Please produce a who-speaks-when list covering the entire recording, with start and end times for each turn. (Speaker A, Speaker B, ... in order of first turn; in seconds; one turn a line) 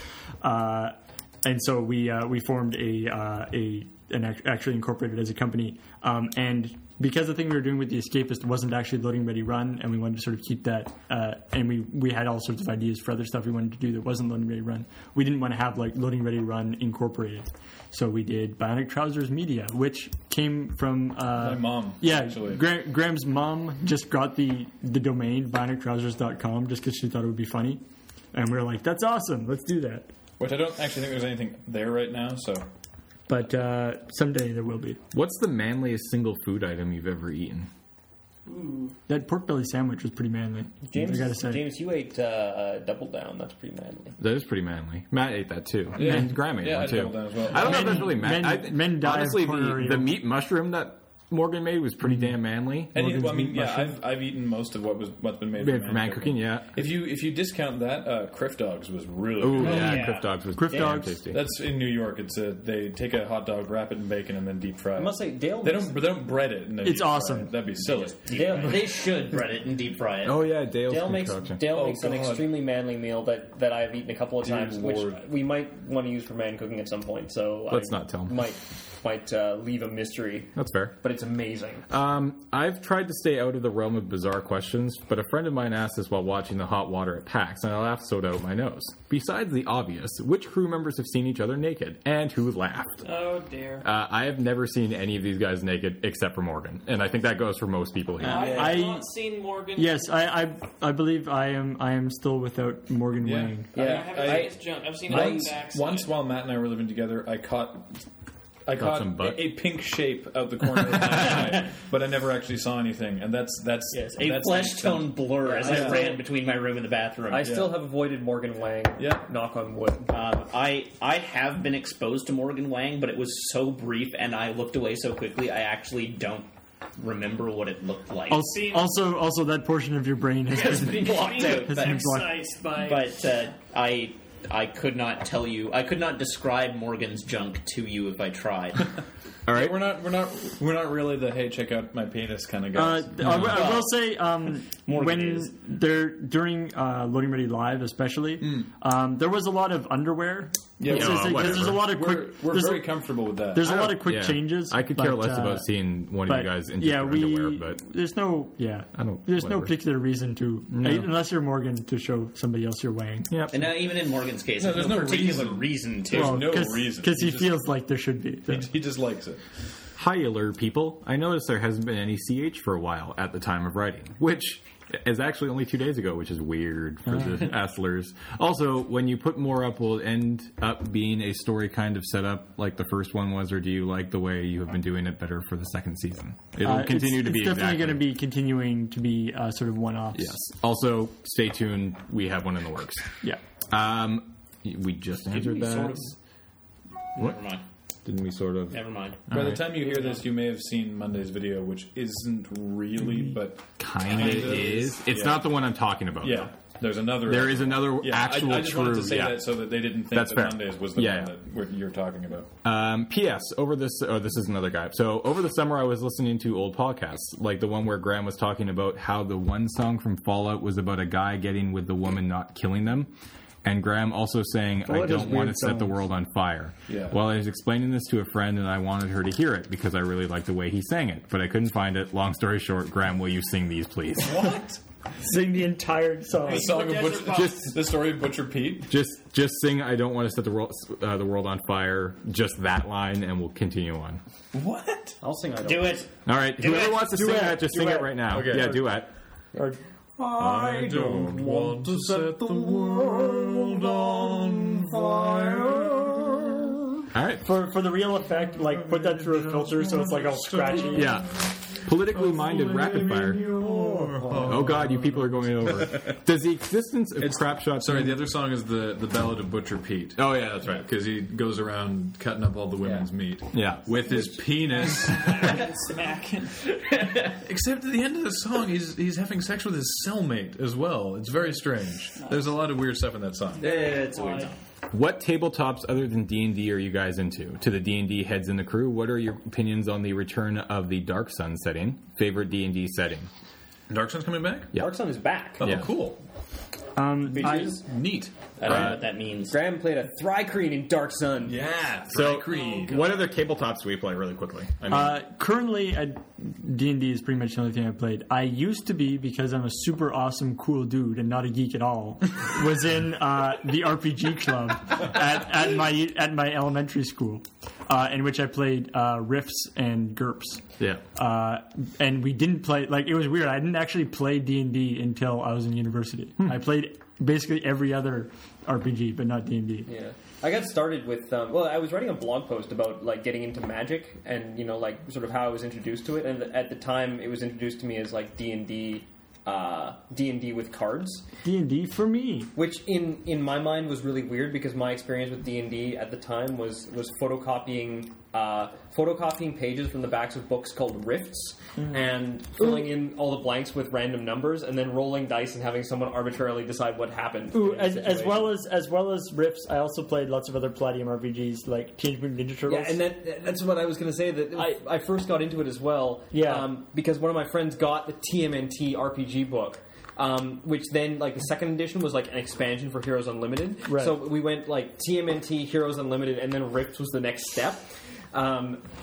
Speaker A: 0.4-27.8
Speaker B: 21.3-22.8
Speaker A: 28.3-30.1
Speaker B: 30.4-32.7
Speaker A: 33.3-35.0
Speaker C: 35.1-37.7
Speaker D: 38.5-39.0
Speaker A: 39.1-41.6
Speaker E: 40.9-44.2
Speaker C: 44.2-53.3
Speaker B: 46.0-48.1
Speaker A: 47.5-50.1
Speaker B: 52.9-60.1
Speaker A: 53.0-53.9
Speaker C: 55.6-56.8
Speaker C: 59.4-61.4
Speaker E: 59.6-60.1
Speaker F: 59.7-60.3
Speaker A: 60.5-61.2
Speaker B: 61.3-68.8
Speaker E: 65.0-66.1
Speaker A: 66.8-67.5
Speaker F: 68.3-70.5
Speaker E: 68.3-68.9
Speaker C: 70.2-71.6
Speaker E: 70.9-81.9
Speaker B: 71.6-72.6
Speaker B: 74.4-75.2
Speaker C: 77.7-78.4
Speaker C: 80.5-81.0
Speaker C: 81.9-93.1
Speaker D: 93.0-93.9
Speaker C: 93.8-98.6
Speaker D: 98.2-100.2
Speaker A: 98.2-99.1
Speaker E: 98.2-98.9
Speaker A: 99.8-103.8
Speaker B: 103.2-104.5
Speaker E: 103.7-105.6
Speaker D: 103.8-106.2
Speaker B: 105.1-108.0
Speaker B: 108.7-116.1
Speaker C: 108.8-109.6
Speaker F: 114.1-117.5
Speaker E: 115.4-116.2
Speaker E: 117.3-120.1
Speaker B: 117.4-117.8
Speaker B: 119.0-119.2
Speaker F: 120.1-128.5
Speaker A: 128.3-132.5
Speaker D: 128.4-129.1
Speaker F: 130.5-138.9
Speaker D: 130.9-133.2
Speaker C: 139.5-139.9
Speaker B: 139.5-143.8
Speaker A: 142.7-155.7
Speaker C: 143.2-143.6
Speaker F: 143.6-143.9
Speaker B: 148.4-148.7
Speaker B: 150.8-153.9
Speaker C: 150.9-151.9
Speaker C: 153.7-157.8
Speaker A: 156.2-163.4
Speaker C: 158.9-159.8
Speaker C: 160.7-161.1
Speaker C: 163.3-163.6
Speaker F: 163.5-166.6
Speaker B: 164.6-167.7
Speaker A: 166.1-168.7
Speaker B: 168.5-169.4
Speaker C: 170.0-188.1
Speaker A: 177.1-177.4
Speaker A: 186.6-190.3
Speaker C: 190.2-193.2
Speaker C: 193.7-196.0
Speaker F: 195.4-196.1
Speaker F: 197.2-197.6
Speaker C: 198.1-199.7
Speaker F: 198.7-199.3
Speaker B: 199.3-205.6
Speaker C: 203.8-206.5
Speaker B: 206.2-212.5
Speaker C: 207.2-211.3
Speaker C: 212.6-234.5
Speaker A: 224.9-225.9
Speaker B: 226.9-227.2
Speaker B: 234.2-234.8
Speaker A: 235.2-236.8
Speaker D: 236.4-237.7
Speaker B: 236.4-238.9
Speaker C: 237.3-237.8
Speaker C: 238.9-244.2
Speaker B: 244.5-245.2
Speaker E: 245.2-246.1
Speaker F: 245.6-247.1
Speaker C: 246.3-249.1
Speaker A: 247.1-248.9
Speaker B: 248.3-248.8
Speaker E: 250.2-253.9
Speaker B: 250.3-256.7
Speaker E: 254.8-256.1
Speaker C: 257.1-257.5
Speaker A: 257.4-261.1
Speaker B: 258.5-266.1
Speaker C: 260.9-263.5
Speaker A: 264.3-264.7
Speaker C: 264.4-268.2
Speaker B: 267.2-275.7
Speaker C: 270.2-270.9
Speaker C: 273.5-274.0
Speaker D: 274.7-276.7
Speaker B: 277.3-283.7
Speaker D: 282.2-282.5
Speaker D: 283.6-284.5
Speaker F: 283.6-284.6
Speaker C: 284.9-293.3
Speaker B: 293.9-294.7
Speaker E: 294.7-295.7
Speaker B: 295.6-296.2
Speaker C: 295.6-295.9
Speaker A: 297.0-297.8
Speaker B: 297.3-298.4
Speaker E: 297.4-297.8
Speaker F: 298.6-299.6
Speaker E: 298.6-301.6
Speaker C: 298.7-298.9
Speaker B: 301.4-303.2
Speaker C: 302.1-305.2
Speaker A: 304.9-320.6
Speaker A: 321.1-329.9
Speaker E: 329.9-341.2
Speaker A: 341.4-342.5
Speaker E: 342.6-358.6
Speaker A: 357.5-363.0
Speaker E: 362.7-378.8
Speaker A: 364.6-364.8
Speaker A: 366.3-366.7
Speaker A: 373.9-374.2